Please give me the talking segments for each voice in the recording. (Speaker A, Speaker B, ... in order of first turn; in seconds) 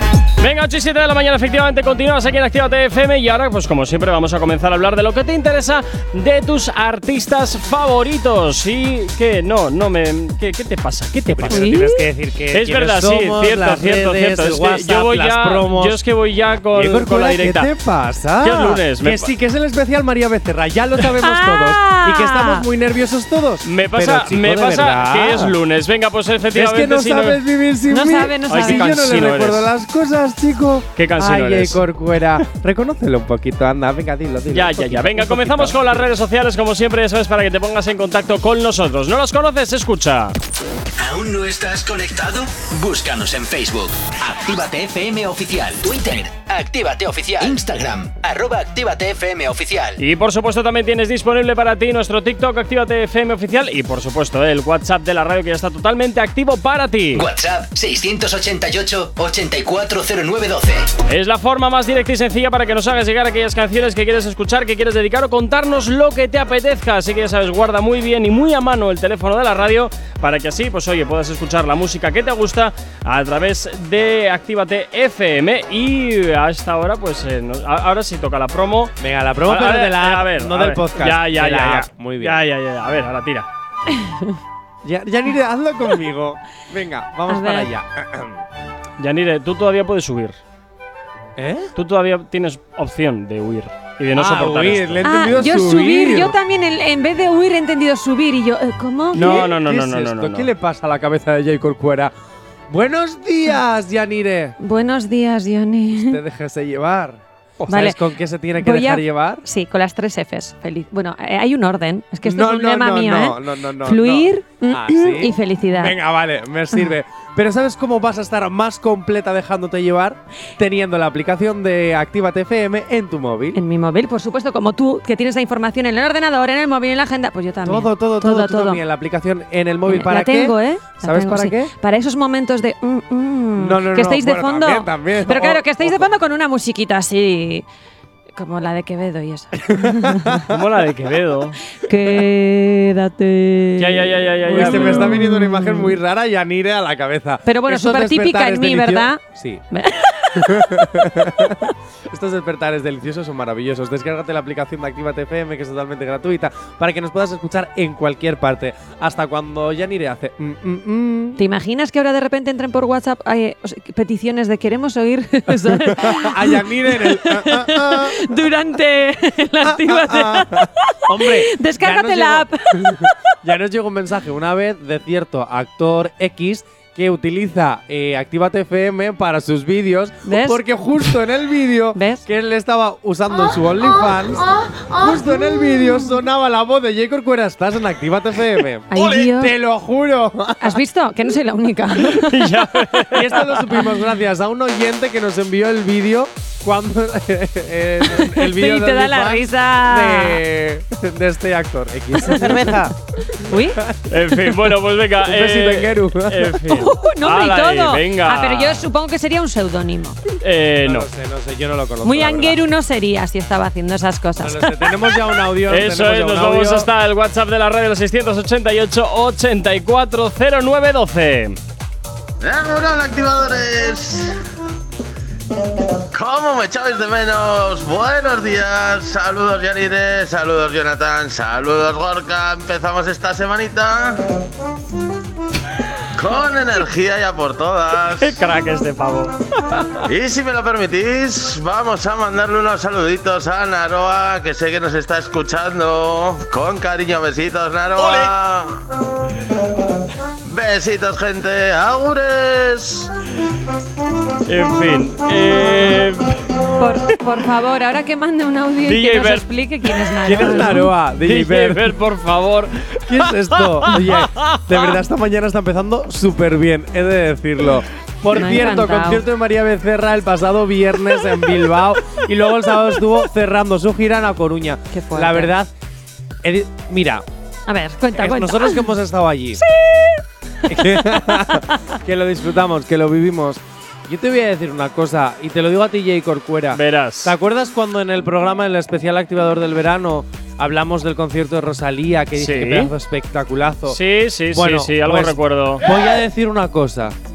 Speaker A: 0.4-11.7, 12.5-17.7, 18.4-19.3, 23.6-27.4, 28.5-29.7, 31.0-31.8, 34.5-40.4, 50.0-57.2, 61.1-78.9, 79.5-83.5, 89.0-90.4, 91.8-95.0, 99.1-100.5, 140.5-141.6, 143.8-145.2, 192.0-193.6, 204.1-208.8, 210.4-211.1, 215.7-221.6, 238.2-240.0, 254.5-256.4, 258.8-259.5, 260.3-260.7, 261.2-265.0, 286.7-287.3, 292.4-292.9, 293.9-295.9
Speaker B: 11.2-16.0, 16.7-25.6, 26.6-36.0, 79.0-82.4, 84.8-88.4, 91.4-91.7, 94.1-96.3, 99.1-102.1, 102.7-104.5, 106.0-109.4, 112.2-123.6, 127.6-131.7, 133.6-136.1, 139.7-140.4, 144.5-149.6, 150.3-161.4, 165.6-168.3, 169.6-190.8, 193.1-202.9, 203.8-204.5, 205.2-206.6, 210.8-212.6, 214.4-216.9, 260.2-261.9, 263.1-275.7, 276.4-277.2, 278.2-279.6, 280.7-294.0, 294.5-297.2
Speaker C: 11.5-12.1, 21.2-22.7, 27.9-28.9, 87.3-87.7, 95.0-99.5, 104.6-106.2, 107.7-108.0, 108.6-116.0, 123.5-128.8, 129.9-137.6, 138.3-140.4, 141.9-145.9, 147.5-149.2, 149.7-151.1, 161.4-173.3, 180.2-180.6, 181.9-182.2, 185.4-185.9, 188.9-189.5, 190.6-192.4, 198.1-200.4, 202.2-202.7, 203.4-203.8, 206.7-210.2, 212.0-215.1, 256.8-260.9, 268.3-269.2, 274.9-275.5, 277.7-278.9, 279.6-280.2, 280.9-281.6
Speaker D: 41.0-50.0, 57.1-60.9
Speaker E: 222.4-224.3, 226.1-234.3, 236.1-238.3, 240.1-248.8, 250.4-253.1